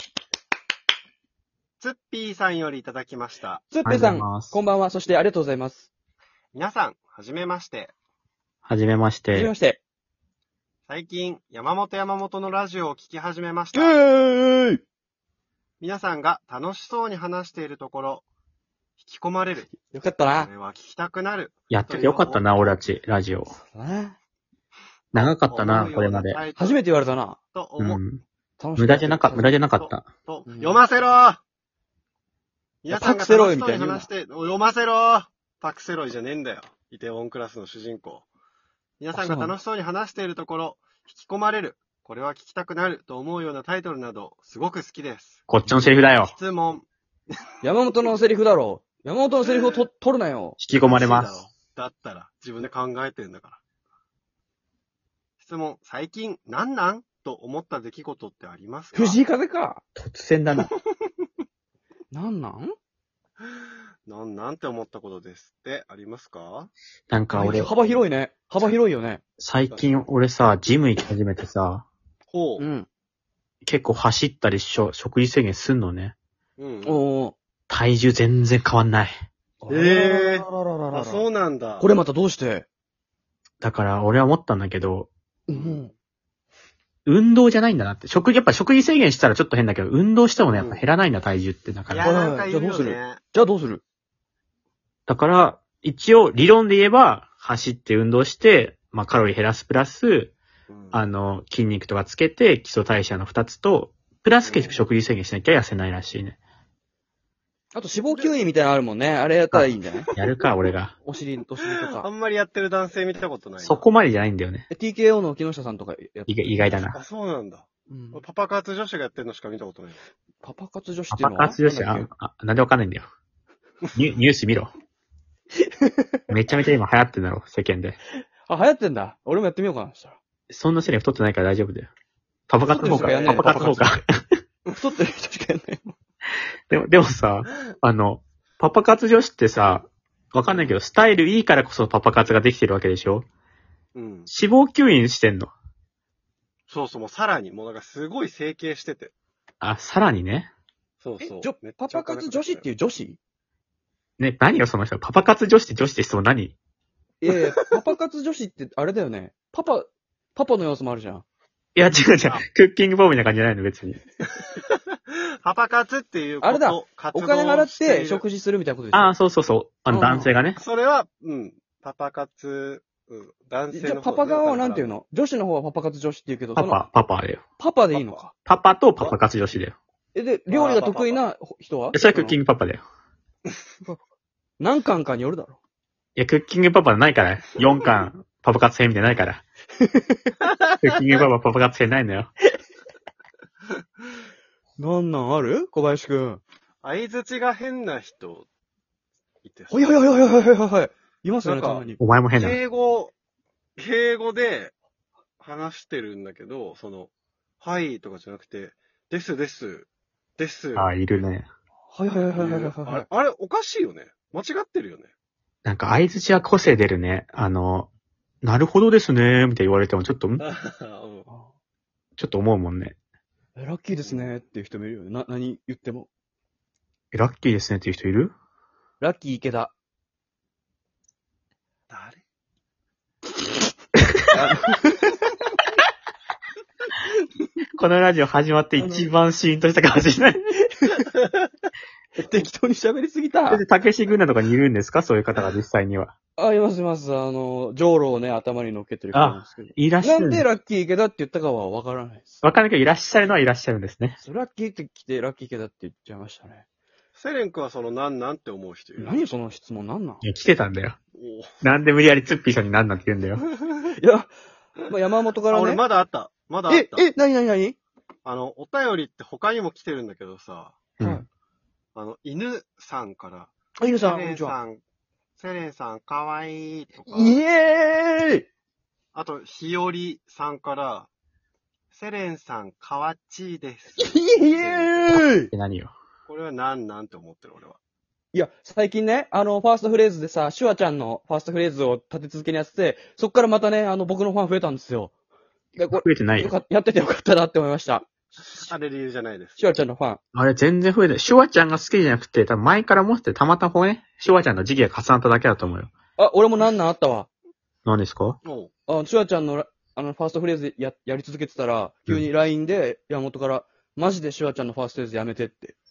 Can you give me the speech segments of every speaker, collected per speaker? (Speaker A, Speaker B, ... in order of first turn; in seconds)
Speaker A: 1.8-3.7, 6.5-7.9, 10.9-13.9, 15.8-18.2, 19.0-19.7, 20.4-22.8, 25.1-26.8, 27.5-28.0, 29.7-31.4, 32.8-38.2, 39.0-45.5, 46.2-46.9, 49.4-49.8, 50.7-53.6, 55.4-59.2, 64.1-66.7, 67.4-68.0, 72.3-72.6, 76.6-77.0, 79.7-81.9, 85.5-85.9, 90.5-90.8, 91.9-93.2, 100.7-101.0, 104.4-104.8, 108.1-108.4, 111.7-113.8, 116.7-120.0, 132.7-133.7, 143.9-144.3, 146.7-149.1, 151.0-152.6, 165.4-168.2, 170.6-174.9, 177.9-178.2, 180.5-181.2, 196.8-198.5, 199.4-199.9, 201.4-203.1, 203.8-204.7, 205.4-207.1, 207.6-211.2, 212.3-215.1, 220.4-221.3, 224.0-224.3, 231.9-232.2, 257.2-259.3, 261.2-261.5, 265.5-267.1, 268.2-270.9, 271.9-274.8, 275.4-277.4, 279.1-281.1, 281.9-285.1, 286.3-287.8, 298.6-299.7, 308.4-308.7
Speaker B: 3.7-5.9, 9.3-9.8, 13.7-14.8, 19.7-20.5, 23.5-24.1, 26.6-27.4, 28.6-29.6, 30.5-30.8, 32.9-34.1, 39.1-39.5, 47.6-50.6, 58.9-59.8, 62.1-62.7, 67.3-69.2, 72.6-72.9, 76.8-77.3, 79.6-81.2, 81.8-82.7, 85.5-85.9, 92.0-93.8, 107.7-110.1, 111.0-112.1, 114.7-116.8, 117.9-118.2, 120.4-122.1, 125.6-126.2, 128.4-130.2, 132.7-134.0, 134.7-135.9, 151.2-153.2, 157.2-161.2, 166.4-169.1, 169.9-170.3, 173.7-176.8, 177.6-178.3, 180.1-182.4, 184.6-185.6, 189.8-190.3, 194.8-196.4, 199.7-202.0, 211.9-213.0, 223.6-226.1, 229.0-229.7, 234.3-235.1, 238.8-239.1, 242.2-243.6, 246.4-252.3, 254.2-256.6, 259.0-260.2, 263.9-265.8, 266.7-267.8, 271.0-271.2, 273.8-274.5, 277.1-278.5, 284.0-285.5, 288.3-295.1, 295.8-298.7, 299.6-300.2, 306.2-307.3, 308.9-315.7
Speaker C: 3.8-4.6, 8.6-9.5, 21.7-23.5, 25.1-26.4, 27.8-28.2, 28.8-30.1, 45.5-46.3, 50.6-51.4, 60.0-60.7, 67.1-67.7, 69.4-71.8, 73.6-76.1, 77.7-79.1, 83.6-85.1, 87.0-92.1, 95.1-100.3, 100.9-106.4, 109.5-110.9, 113.6-114.7, 116.3-117.0, 121.1-123.1, 123.9-124.7, 126.3-128.0, 130.5-131.9, 132.5-134.0, 136.7-143.2, 144.3-145.5, 149.6-150.5, 154.2-156.5, 161.8-164.0, 168.9-170.6, 176.6-177.4, 178.3-179.7, 181.9-182.8, 186.2-189.4, 190.7-192.3, 202.0-202.6, 210.7-211.5, 215.6-217.9, 218.4-220.4, 222.2-222.9, 227.1-228.3, 237.8-240.5, 243.5-246.1, 249.1-250.4, 252.4-254.2, 260.2-261.0, 261.6-263.4, 285.1-285.9, 295.9-296.5, 300.3-305.9, 307.8-308.4